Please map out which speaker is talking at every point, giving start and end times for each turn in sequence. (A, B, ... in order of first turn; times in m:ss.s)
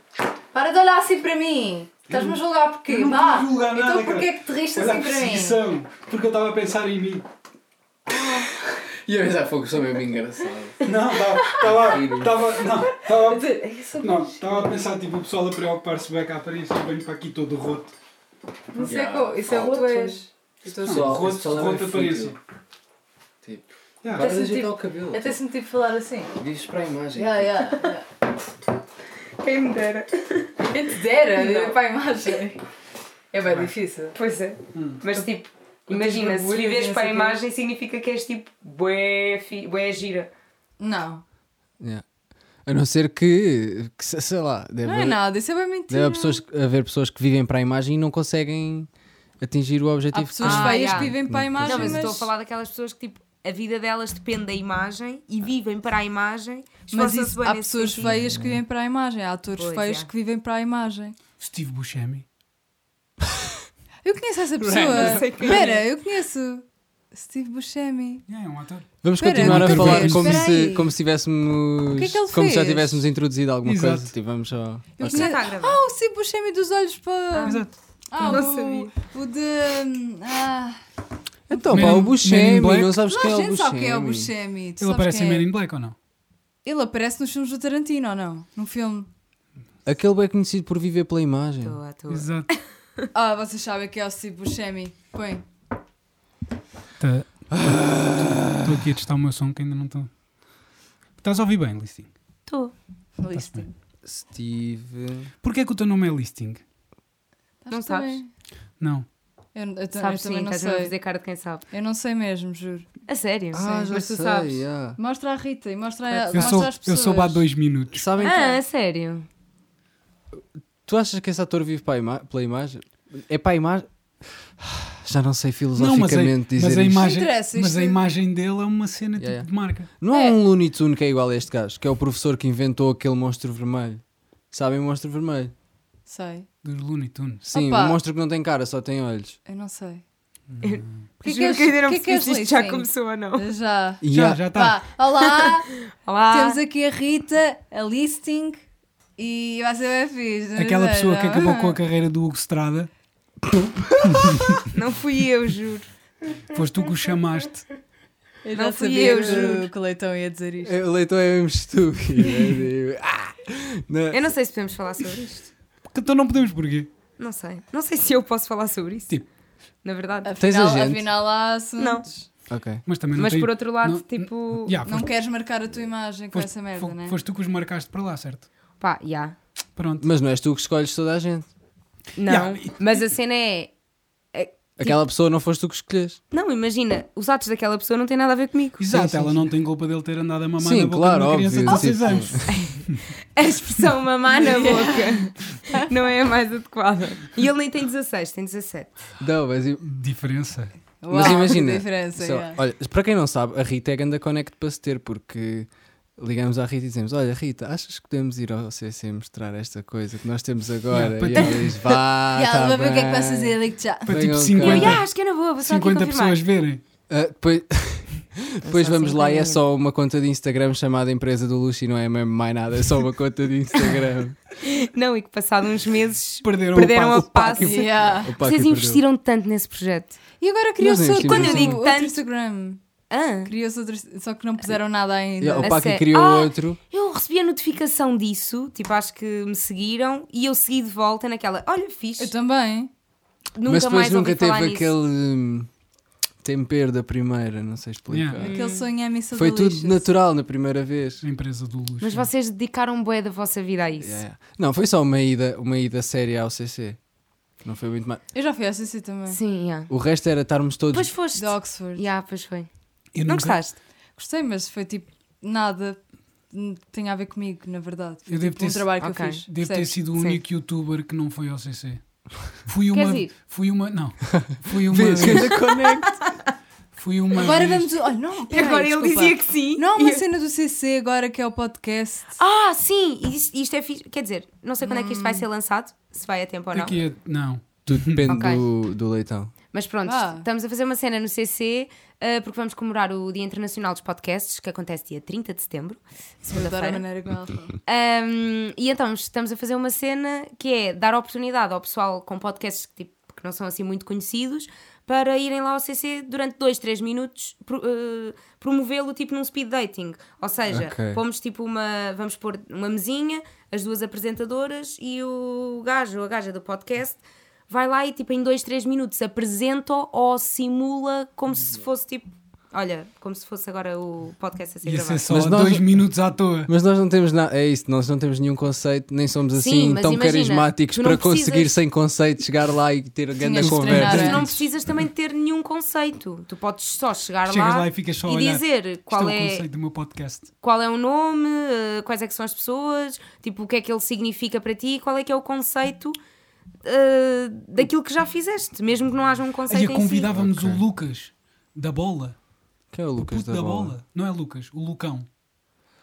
0:00.5-0:05.6 A
0:02.1-0:07.2 B
0:08.2-0:10.8 C
0:10.8-0:17.9 B
0:11.6-0:12.4 C
0:13.1-0:14.4 A
0:18.7-0:21.2 A
0:18.8-0:19.8 C
0:19.5-0:20.2 D
0:20.7-0:22.4 C
0:20.9-0:22.4 B
0:23.4-0:25.4 C
0:24.0-0:24.3 B
0:24.2-0:26.4 A
0:26.4-0:27.7 C
0:27.2-0:28.0 A
0:29.4-0:30.7 D
0:30.7-0:32.6 A
0:31.3-0:31.8 D
0:33.3-0:34.2 A
0:33.5-0:33.7 B
0:34.2-0:40.3 D
0:34.7-0:35.0 B
0:35.9-0:37.4 A
0:40.8-0:41.2 A
0:42.7-0:45.2 C
0:44.8-0:46.4 A
0:45.9-0:48.9 C
0:49.4-0:52.1 C
0:50.1-0:52.3 A
0:50.4-0:58.1 D
0:56.9-1:01.2 A
0:58.0-0:58.6 C
0:59.6-1:00.1 D
1:01.4-1:02.3 B
1:04.0-1:08.2 A
1:04.6-1:05.8 D
1:04.7-1:05.6 C
1:08.3-1:10.5 B
1:09.0-1:15.3 C
1:09.2-1:10.9 A
1:12.0-1:13.0 A
1:13.6-1:14.1 B
1:15.0-1:20.8 A
1:15.0-1:15.8 D
1:17.3-1:17.6 D
1:17.4-1:17.7 B
1:18.2-1:18.9 D
1:21.5-1:24.3 C
1:21.5-1:22.1 A
1:21.7-1:23.0 B
1:23.0-1:25.5 A
1:24.8-1:26.0 B
1:26.6-1:29.1 A
1:29.9-1:31.8 C
1:31.6-1:33.1 D
1:32.1-1:32.5 B
1:33.1-1:35.4 A
1:37.0-1:40.1 B
1:37.5-1:38.9 C
1:41.2-1:42.1 B
1:42.5-1:42.7 D
1:43.2-1:43.8 A
1:43.4-1:43.6 B
1:44.0-1:45.3 C
1:45.4-1:46.6 B
1:47.6-1:48.3 A
1:47.7-1:48.2 D
1:48.8-1:49.1 B
1:49.6-1:50.9 A
1:50.0-1:51.6 D
1:51.7-1:52.9 A
1:53.1-1:54.6 D
1:53.5-1:55.0 C
1:53.5-1:53.9 A
1:55.0-1:57.4 A
1:56.1-1:56.6 D
1:56.3-1:58.0 B
1:57.9-1:58.4 C
1:58.2-1:58.6 A
1:58.2-1:59.3 D
2:00.8-2:07.1 C
2:05.8-2:09.9 B
2:07.0-2:08.0 A
2:09.2-2:15.5 C
2:10.1-2:10.4 A
2:16.1-2:16.5 A
2:16.6-2:17.4 B
2:17.4-2:19.4 C
2:17.5-2:18.0 A
2:19.5-2:20.0 A
2:20.5-2:20.9 B
2:20.6-2:23.5 D
2:21.2-2:25.7 A
2:24.0-2:24.4 C
2:24.1-2:24.8 B
2:25.2-2:26.6 D
2:26.3-2:28.6 A
2:29.2-2:31.6 A
2:30.6-2:32.9 B
2:31.4-2:31.8 D
2:33.6-2:34.6 C
2:34.1-2:34.5 B
2:34.7-2:35.9 D
2:36.5-2:37.7 B
2:38.4-2:40.8 A
2:38.6-2:39.7 D
2:40.6-2:44.3 C
2:44.1-2:45.5 D
2:45.9-2:46.9 B
2:47.2-2:49.2 D
2:49.8-2:50.3 D
2:50.2-2:52.3 A
2:50.4-2:51.1 C
2:51.8-2:52.0 D
2:52.5-2:52.8 C
2:52.9-2:55.1 B
2:53.2-2:54.8 D
2:54.8-2:57.2 A
2:56.3-2:58.5 B
2:58.8-2:59.4 D
2:59.8-3:00.1 B
3:00.0-3:01.5 C
3:02.2-3:03.7 D
3:02.3-3:02.8 B
3:04.3-3:05.0 D
3:04.8-3:06.2 C
3:06.3-3:08.8 D
3:08.8-3:13.0 B
3:08.9-3:09.5 C
3:10.6-3:12.6 C
3:12.5-3:12.8 D
3:13.4-3:18.9 D
3:14.4-3:15.8 A
3:19.2-3:19.9 C
3:19.9-3:20.7 B
3:21.0-3:22.6 A
3:21.1-3:35.0 C
3:30.9-3:31.8 B
3:32.3-3:34.4 A
3:34.1-3:35.1 B
3:34.6-3:36.4 D
3:35.6-3:36.8 B
3:37.1-3:44.4 C
3:38.6-3:39.6 D
3:44.6-3:47.9 D
3:46.4-3:47.9 B
3:47.6-3:49.0 C
3:47.6-3:48.3 A
3:48.4-3:50.2 D
3:50.4-3:52.8 A
3:50.8-3:51.8 C
3:51.2-3:52.2 D
3:53.1-3:53.5 D
3:53.4-3:55.8 A
3:55.4-3:56.8 C
3:55.6-4:02.3 D
4:02.2-4:02.9 A
4:03.6-4:04.9 D
4:03.7-4:05.7 C
4:06.4-4:08.5 C
4:08.1-4:08.4 B
4:08.4-4:08.9 D
4:08.4-4:10.1 A
4:09.3-4:11.2 C
4:11.2-4:12.3 B
4:12.0-4:14.2 D
4:14.0-4:17.0 C
4:17.6-4:18.2 C
4:18.3-4:19.4 A
4:19.3-4:19.9 D
4:19.9-4:21.1 C
4:20.9-4:22.7 D
4:21.4-4:22.0 A
4:23.2-4:23.6 B
4:23.2-4:23.8 D
4:24.2-4:30.0 A
4:28.3-4:35.6 B
4:29.0-4:29.4 D
4:30.2-4:30.4 D
4:32.9-4:33.3 D
4:34.7-4:36.2 C
4:35.2-4:36.1 D
4:37.0-4:37.9 B
4:37.4-4:42.4 A
4:38.5-4:40.2 D
4:42.4-4:47.0 D
4:44.8-4:45.5 A
4:46.7-4:48.2 B
4:47.9-4:49.5 C
4:48.3-4:48.6 D
4:49.7-4:57.0 D
4:50.1-4:50.5 A
4:56.4-4:57.7 A
4:57.8-5:25.3 D
5:10.7-5:11.2 C
5:24.8-5:26.7 B
5:25.3-5:25.9 C
5:26.7-5:34.4 C
5:29.6-5:31.8 D
5:33.4-5:34.7 A
5:33.6-5:34.5 B
5:33.9-5:39.7 D
5:37.5-5:40.5 B
5:40.6-5:46.2 D
5:46.8-5:50.3 D
5:49.7-5:52.4 B
5:50.3-5:50.8 C
5:52.9-5:53.9 C
5:53.2-5:55.3 B